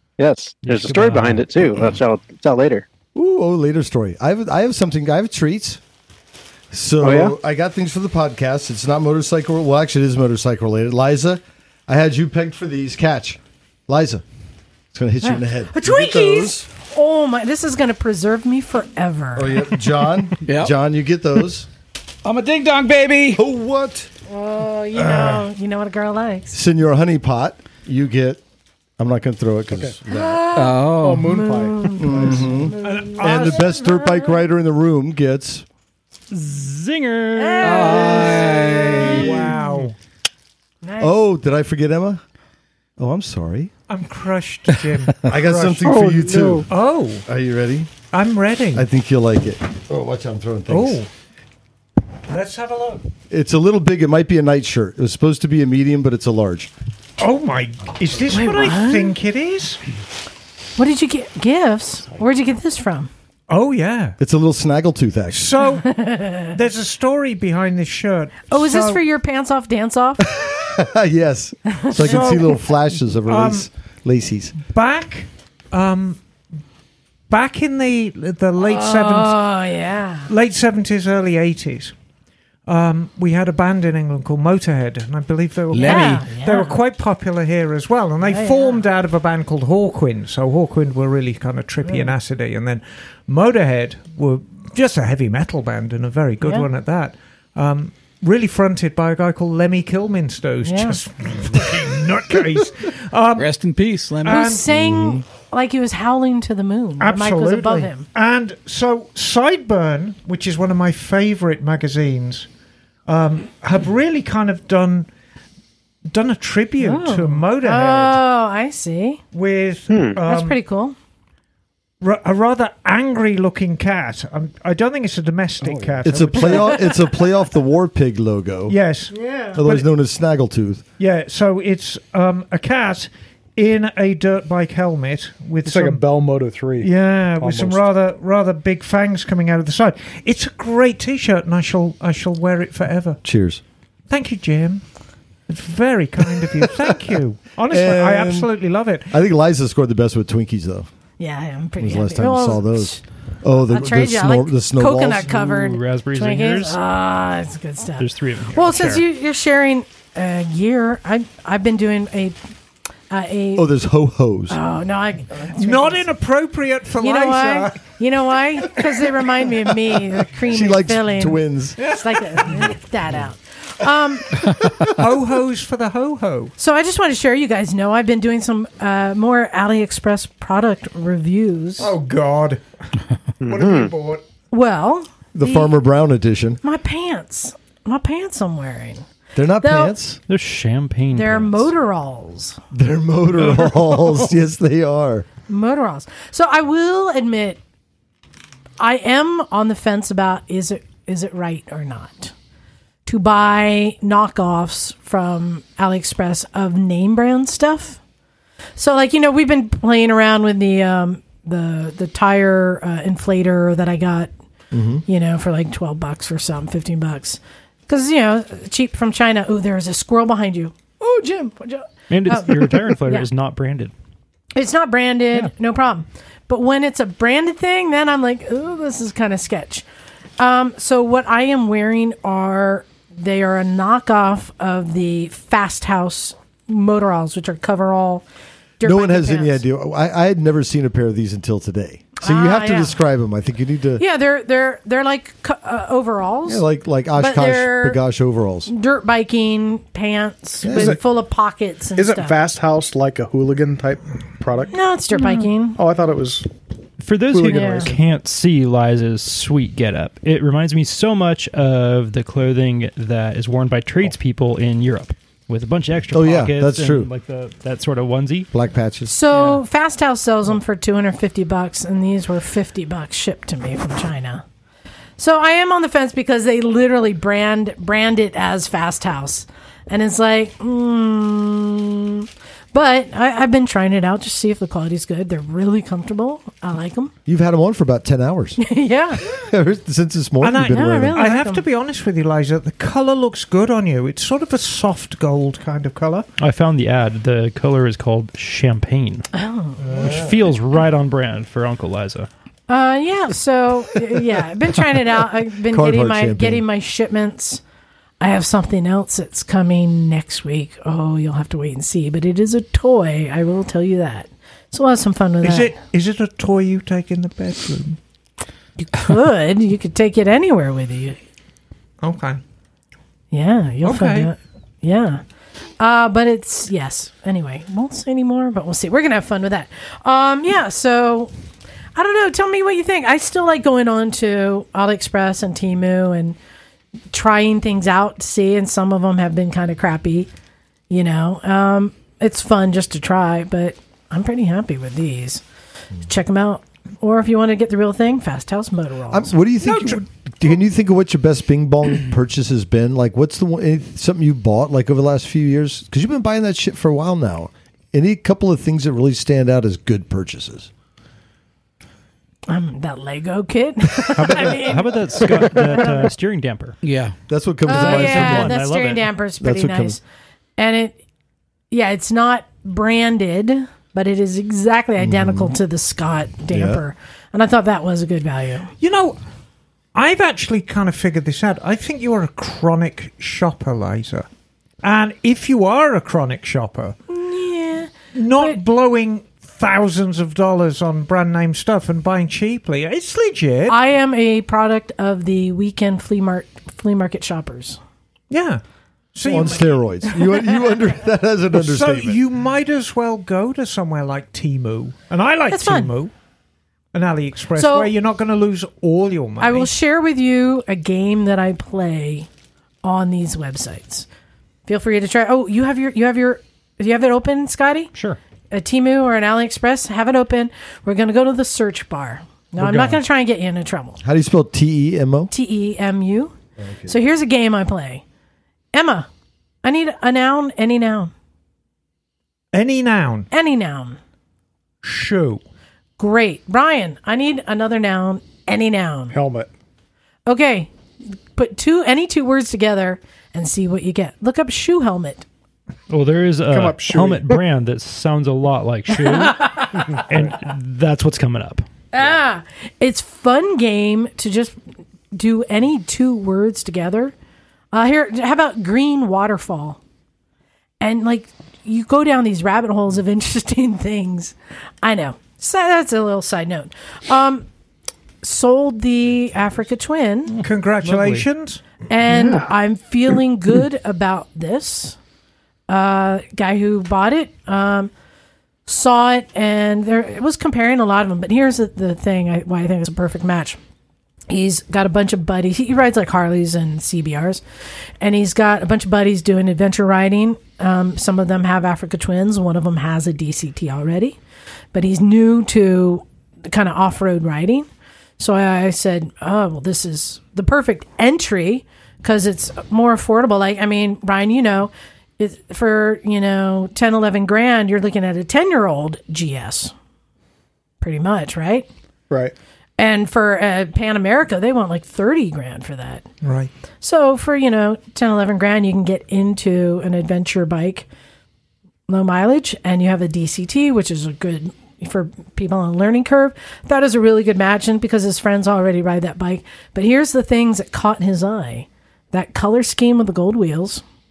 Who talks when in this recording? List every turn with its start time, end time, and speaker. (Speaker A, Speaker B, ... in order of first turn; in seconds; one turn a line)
Speaker A: 0.2-2.9
Speaker B: 0.6-1.5
Speaker C: 3.1-5.8
Speaker C: 6.7-14.2
Speaker A: 7.0-7.3
Speaker C: 14.9-16.7
Speaker D: 15.2-19.6
Speaker C: 19.4-21.7
Speaker E: 20.4-20.8
Speaker E: 22.2-23.4
Speaker C: 23.4-24.1
Speaker D: 24.3-26.6
Speaker F: 25.1-25.4
Speaker C: 26.5-28.4
Speaker C: 29.0-30.4
Speaker D: 30.1-34.4
Speaker E: 30.5-31.3
Speaker G: 31.0-32.7
Speaker C: 31.9-35.6
Speaker F: 32.8-33.7
Speaker B: 36.3-38.3
Speaker D: 37.3-39.3
Speaker E: 37.6-39.3
Speaker C: 38.4-39.5
Speaker F: 39.0-40.0
Speaker D: 40.8-41.2
Speaker C: 41.0-42.2
Speaker C: 43.0-43.7
Speaker F: 43.9-45.8
Speaker C: 45.2-46.7
Speaker A: 45.8-46.7
Speaker F: 46.7-47.2
Speaker C: 47.2-47.9
Speaker F: 48.1-48.9
Speaker C: 48.7-51.0
Speaker F: 50.7-51.1
Speaker F: 52.3-53.1
Speaker C: 53.3-56.7
Speaker F: 57.2-59.8
Speaker D: 58.3-59.2
Speaker D: 60.8-63.1
Speaker F: 63.5-64.2
Speaker C: 64.2-65.5
Speaker F: 65.3-69.0
Speaker D: 65.8-66.5
Speaker D: 68.5-70.3
Speaker C: 70.3-74.6
Speaker D: 71.7-72.4
Speaker F: 72.0-72.6
Speaker F: 73.3-73.7
Speaker F: 74.7-76.2
Speaker F: 77.3-79.5
Speaker D: 78.6-80.3
Speaker F: 80.3-81.9
Speaker F: 82.7-103.5
Speaker E: 85.7-86.2
Speaker D: 85.8-86.8
Speaker D: 88.2-88.8
Speaker D: 96.4-96.7
Speaker D: 100.6-101.0
Speaker E: 103.4-104.5
Speaker F: 104.2-104.6
Speaker D: 104.2-108.1
Speaker C: 104.7-105.2
Speaker F: 107.0-112.5
Speaker F: 113.1-115.1
Speaker F: 116.1-118.2
Speaker D: 116.8-119.2
Speaker F: 119.3-120.6
Speaker A: 119.9-120.2
Speaker D: 120.3-121.0
Speaker F: 122.0-126.8
Speaker G: 125.6-126.0
Speaker C: 126.0-128.8
Speaker D: 126.4-127.0
Speaker F: 128.7-129.9
Speaker D: 129.2-129.6
Speaker C: 129.6-130.8
Speaker F: 131.0-136.0
Speaker G: 135.6-137.8
Speaker F: 136.8-143.2
Speaker C: 143.2-143.6
Speaker F: 144.1-144.8
Speaker F: 145.5-149.1
Speaker C: 147.7-148.5
Speaker C: 149.1-150.9
Speaker D: 151.2-162.4
Speaker C: 151.8-155.3
Speaker B: 155.2-156.8
Speaker B: 158.0-159.0
Speaker D: 163.1-163.7
Speaker C: 163.6-164.6
Speaker D: 164.5-166.0
Speaker F: 165.6-167.8
Speaker D: 167.0-174.5
Speaker C: 170.4-171.8
Speaker F: 174.8-176.5
Speaker D: 176.6-181.9
Speaker F: 181.8-182.6
Speaker A: 183.4-183.9
Speaker F: 183.4-184.2
Speaker D: 184.5-185.8
Speaker C: 185.3-186.6
Speaker D: 186.6-189.1
Speaker C: 189.3-190.2
Speaker D: 189.6-190.0
Speaker B: 190.3-191.7
Speaker D: 191.1-192.6
Speaker C: 192.7-195.3
Speaker D: 195.5-197.6
Speaker D: 198.8-202.3
Speaker D: 203.1-208.0
Speaker D: 208.8-214.3
Speaker C: 214.7-215.0
Speaker D: 215.1-223.3
Speaker B: 222.1-223.9
Speaker D: 224.6-229.8
Speaker D: 230.4-238.2
Speaker D: 238.8-239.6
Speaker C: 238.8-244.0
Speaker D: 242.2-243.0
Speaker D: 244.0-246.6
Speaker C: 246.5-248.7
Speaker D: 247.2-248.0
Speaker D: 248.7-252.3
Speaker C: 250.6-251.0
Speaker G: 250.7-251.0
Speaker G: 252.0-254.8
Speaker D: 254.7-255.8
Speaker G: 255.8-256.5
Speaker B: 257.0-268.5
Speaker G: 257.3-258.0
Speaker D: 257.5-257.9
Speaker C: 266.1-267.1
Speaker C: 268.5-269.1
Speaker D: 269.1-274.4
Speaker B: 269.3-269.6
Speaker D: 275.2-287.1
Speaker C: 287.3-288.6
Speaker D: 288.6-289.3
Speaker C: 289.2-291.2
Speaker F: 290.4-296.3
Speaker D: 290.7-291.6
Speaker B: 296.4-299.3
Speaker D: 299.3-300.2
Speaker C: 299.9-300.5
Speaker B: 299.9-302.3
Speaker D: 302.7-307.6
Speaker C: 305.6-306.6
Speaker D: 308.2-315.8
Speaker F: 315.4-318.0
Speaker D: 318.8-321.2
Speaker F: 322.0-322.4
Speaker D: 323.3-325.2
Speaker F: 323.8-324.3
Speaker D: 325.8-331.3
Speaker D: 331.9-336.4
Speaker D: 337.1-340.3
Speaker D: 340.9-345.4
Speaker D: 346.1-349.4
Speaker C: 349.1-360.7
Speaker F: 349.6-350.1
Speaker D: 362.5-366.1
Speaker B: 364.2-366.8
Speaker C: 364.3-364.6
Speaker E: 366.8-367.2
Speaker C: 367.3-368.6
Speaker D: 367.6-370.0
Speaker B: 367.7-369.1
Speaker C: 369.4-370.0
Speaker D: 370.6-371.0
Speaker D: 371.7-378.7
Speaker C: 375.0-375.6
Speaker C: 376.5-376.8
Speaker F: 378.8-379.2
Speaker F: 379.9-384.3
Speaker F: 384.8-387.0
Speaker D: 387.1-388.6
Speaker F: 388.1-393.8
Speaker D: 393.7-397.8
Speaker F: 398.3-398.6
Speaker F: 399.1-399.8
Speaker C: 399.3-402.2
Speaker F: 401.5-406.1
Speaker D: 405.5-405.9
Speaker F: 406.9-409.7
Speaker D: 407.6-407.9
Speaker D: 409.4-412.3
Speaker D: 412.8-414.1
Speaker D: 414.7-417.9
Speaker D: 418.5-424.0
Speaker B: 422.7-423.0
Speaker C: 424.0-425.3
Speaker D: 425.3-426.4
Speaker C: 426.6-426.9
Speaker D: 426.9-428.0
Speaker D: 428.7-429.1
Speaker D: 429.6-431.1
Speaker F: 432.5-433.3
Speaker D: 433.3-434.0
Speaker F: 434.8-435.4
Speaker D: 436.0-439.2
Speaker G: 439.1-439.5
Speaker D: 440.3-440.7
Speaker D: 441.4-445.3
Speaker B: 445.9-451.6
Speaker G: 446.5-447.3
Speaker D: 449.0-450.0
Speaker D: 451.9-454.6
Speaker D: 455.1-457.1
Speaker D: 457.7-459.8
Speaker D: 460.8-467.4
Speaker D: 468.2-470.4
Speaker B: 470.3-471.3
Speaker F: 470.4-471.6
Speaker D: 471.9-475.0
Speaker D: 475.7-477.9
Speaker D: 478.7-483.6
Speaker D: 484.3-487.4
Speaker D: 488.0-494.2
Speaker D: 494.7-497.7
Speaker D: 498.2-509.7
Speaker D: 510.8-511.7
Speaker D: 512.8-516.1
Speaker F: 516.2-516.5
Speaker D: 516.8-520.9
Speaker D: 521.9-533.8